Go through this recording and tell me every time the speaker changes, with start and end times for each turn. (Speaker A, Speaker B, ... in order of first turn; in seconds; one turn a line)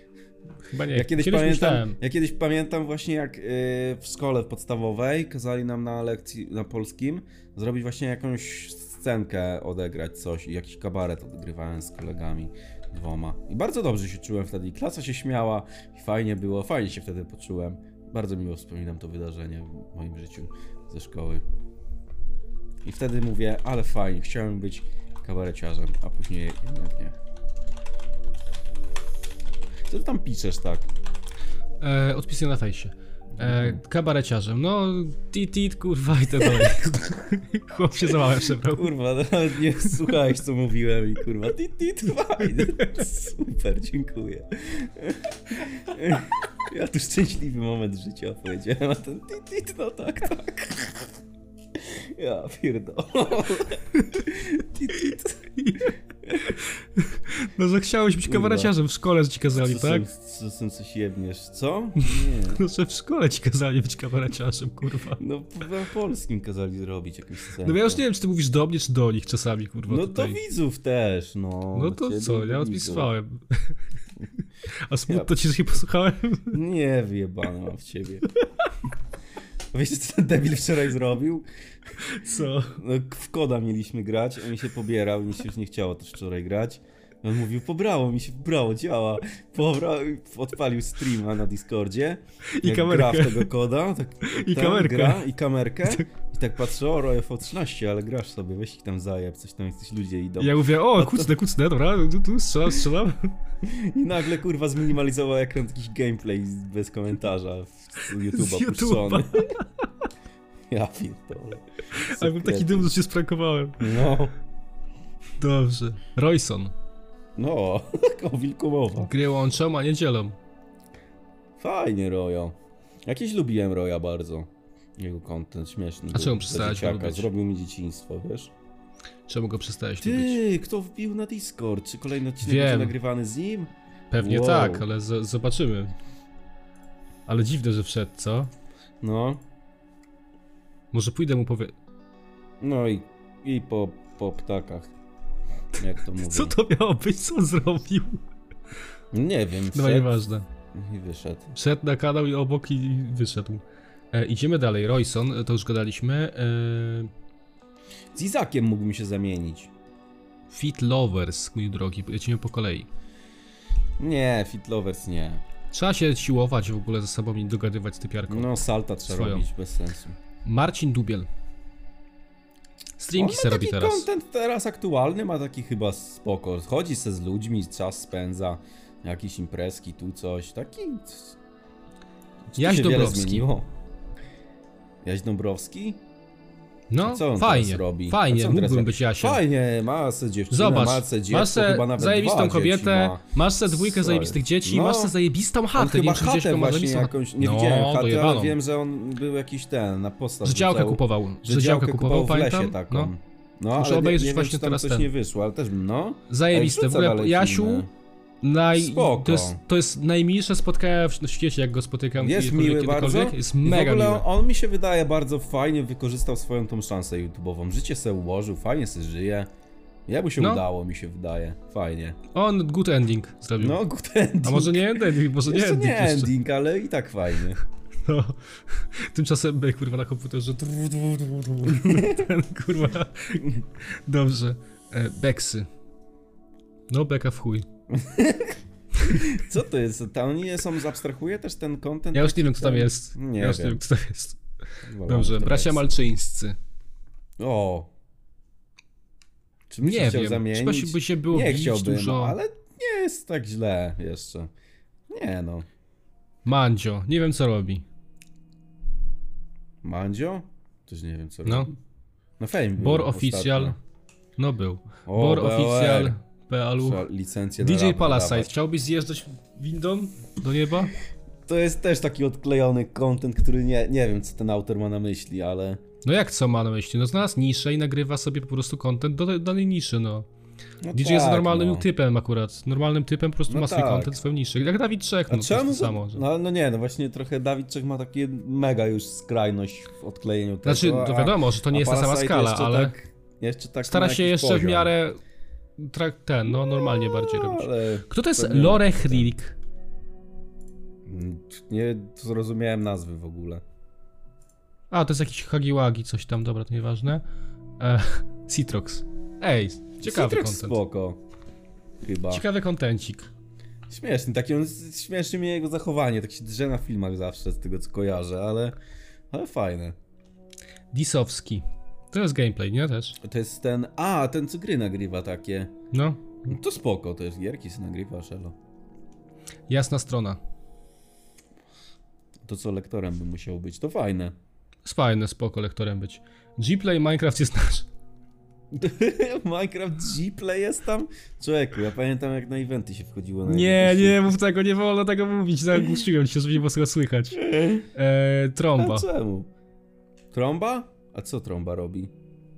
Speaker A: 0.7-2.0
Speaker B: 0.9-21.4
Speaker B: 22.8-27.1
Speaker B: 29.9-30.9
Speaker A: 31.8-38.9
Speaker B: 33.4-33.8
Speaker B: 38.6-51.1
Speaker A: 42.5-42.9
Speaker B: 51.7-56.5
Speaker A: 55.6-60.1
Speaker B: 58.2-58.7
Speaker B: 59.5-62.6
Speaker A: 62.0-65.2
Speaker B: 65.2-68.0
Speaker A: 67.6-70.4
Speaker B: 69.9-73.1
Speaker A: 71.7-73.8
Speaker A: 74.7-76.6
Speaker B: 76.5-78.3
Speaker B: 79.7-81.5
Speaker A: 82.0-82.8
Speaker B: 82.7-101.3
Speaker A: 92.6-93.5
Speaker A: 94.2-95.2
Speaker A: 100.4-103.3
Speaker B: 103.6-109.5
Speaker A: 108.3-109.8
Speaker B: 110.7-112.9
Speaker A: 111.9-114.2
Speaker B: 113.8-114.3
Speaker A: 115.4-116.7
Speaker B: 117.4-119.1
Speaker A: 119.0-120.4
Speaker B: 121.6-128.5
Speaker A: 126.1-127.3
Speaker A: 129.3-130.4
Speaker B: 130.0-134.8
Speaker A: 132.4-132.9
Speaker A: 134.1-135.9
Speaker A: 137.2-138.5
Speaker B: 139.0-139.4
Speaker A: 140.9-141.7
Speaker B: 142.6-144.9
Speaker B: 145.7-146.5
Speaker A: 146.1-148.2
Speaker B: 149.1-150.2
Speaker A: 149.7-150.5
Speaker B: 150.7-151.5
Speaker A: 151.5-157.1
Speaker B: 158.1-159.7
Speaker A: 160.5-162.9
Speaker B: 164.0-165.4
Speaker A: 165.7-169.4
Speaker B: 168.3-170.2
Speaker A: 170.4-171.3
Speaker A: 173.0-174.1
Speaker B: 173.1-181.4
Speaker B: 182.5-183.7
Speaker A: 182.6-183.4
Speaker B: 185.0-186.0
Speaker A: 186.9-189.4
Speaker B: 187.0-195.2
Speaker A: 190.5-198.6
Speaker B: 195.7-207.9
Speaker A: 200.4-203.1
Speaker A: 203.7-205.1
Speaker A: 206.3-207.9
Speaker A: 208.4-214.2
Speaker B: 208.7-209.6
Speaker B: 212.2-219.5
Speaker B: 220.1-222.2
Speaker A: 222.3-223.8
Speaker B: 223.6-227.6
Speaker A: 224.4-226.3
Speaker A: 228.0-235.7
Speaker B: 231.6-232.3
Speaker A: 236.9-237.7
Speaker B: 237.9-243.8
Speaker A: 239.0-239.3
Speaker A: 242.1-244.4
Speaker B: 244.8-245.9
Speaker A: 245.1-246.6
Speaker B: 247.4-247.9
Speaker B: 249.7-254.5
Speaker A: 249.8-252.4
Speaker B: 255.1-255.7
Speaker A: 256.4-257.8
Speaker B: 259.8-261.8
Speaker B: 262.4-263.8
Speaker A: 262.8-263.8
Speaker A: 264.4-267.1
Speaker B: 265.1-266.1
Speaker B: 266.8-268.5
Speaker A: 267.6-270.9
Speaker B: 271.5-275.8
Speaker A: 276.0-280.3
Speaker B: 280.8-281.9
Speaker A: 280.9-286.2
Speaker B: 283.5-284.2
Speaker B: 285.3-294.9
Speaker A: 290.6-292.9
Speaker A: 293.8-295.2
Speaker A: 295.8-299.6
Speaker B: 296.5-299.3
Speaker B: 301.1-303.6
Speaker A: 304.9-307.2
Speaker A: 307.8-310.8
Speaker B: 310.0-311.2
Speaker B: 312.0-312.4
Speaker A: 312.3-313.3
Speaker B: 313.9-318.8
Speaker B: 319.3-320.0
Speaker A: 320.9-323.2
Speaker B: 323.2-325.7
Speaker A: 325.9-326.4
Speaker B: 326.4-328.5
Speaker A: 329.7-330.4
Speaker B: 332.4-334.3
Speaker A: 334.8-337.9
Speaker B: 338.7-344.3
Speaker A: 343.4-349.1
Speaker B: 347.3-347.9
Speaker B: 348.8-349.5
Speaker B: 350.3-352.1